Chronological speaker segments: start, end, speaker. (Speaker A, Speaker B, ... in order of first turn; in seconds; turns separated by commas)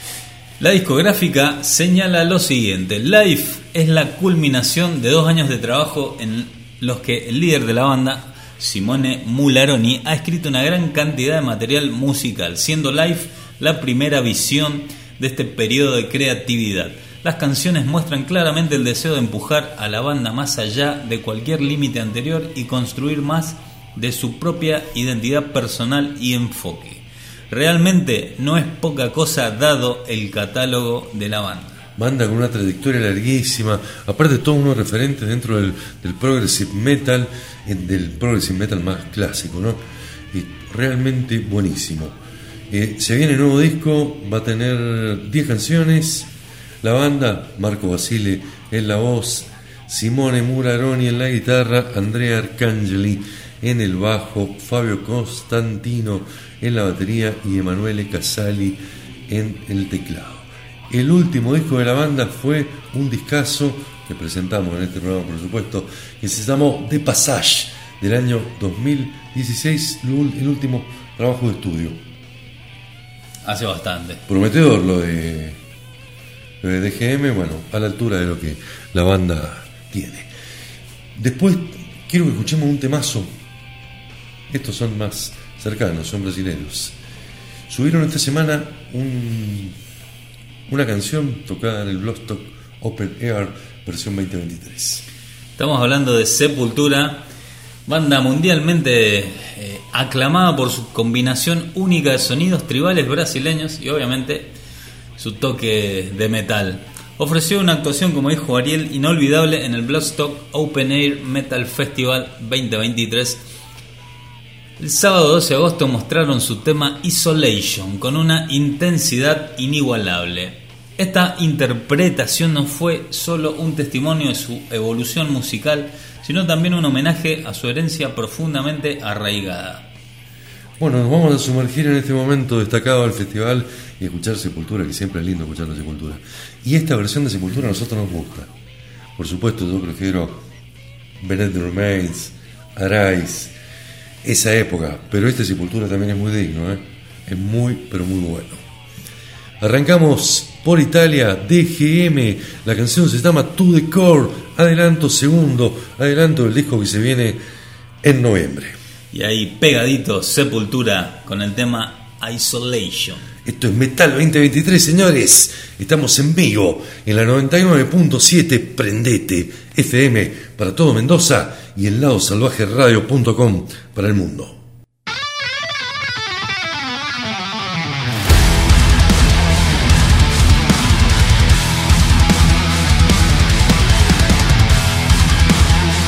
Speaker A: 0.6-31.8, Speaker B: 32.0-39.8, Speaker B: 40.3-42.2, Speaker B: 42.7-46.3, Speaker B: 46.8-72.0, Speaker A: 73.4-74.2, Speaker B: 74.3-75.6, Speaker B: 76.6-80.3, Speaker B: 81.1-83.3, Speaker B: 84.5-87.0, Speaker B: 87.7-89.8, Speaker B: 90.7-95.0, Speaker A: 95.6-97.2, Speaker A: 97.9-104.5, Speaker A: 105.2-113.4, Speaker A: 114.8-129.9, Speaker B: 130.8-138.5, Speaker B: 139.2-140.4, Speaker B: 141.2-143.5, Speaker B: 144.2-148.6, Speaker B: 149.6-157.4, Speaker B: 158.0-158.8, Speaker A: 159.1-163.3, Speaker B: 163.4-174.6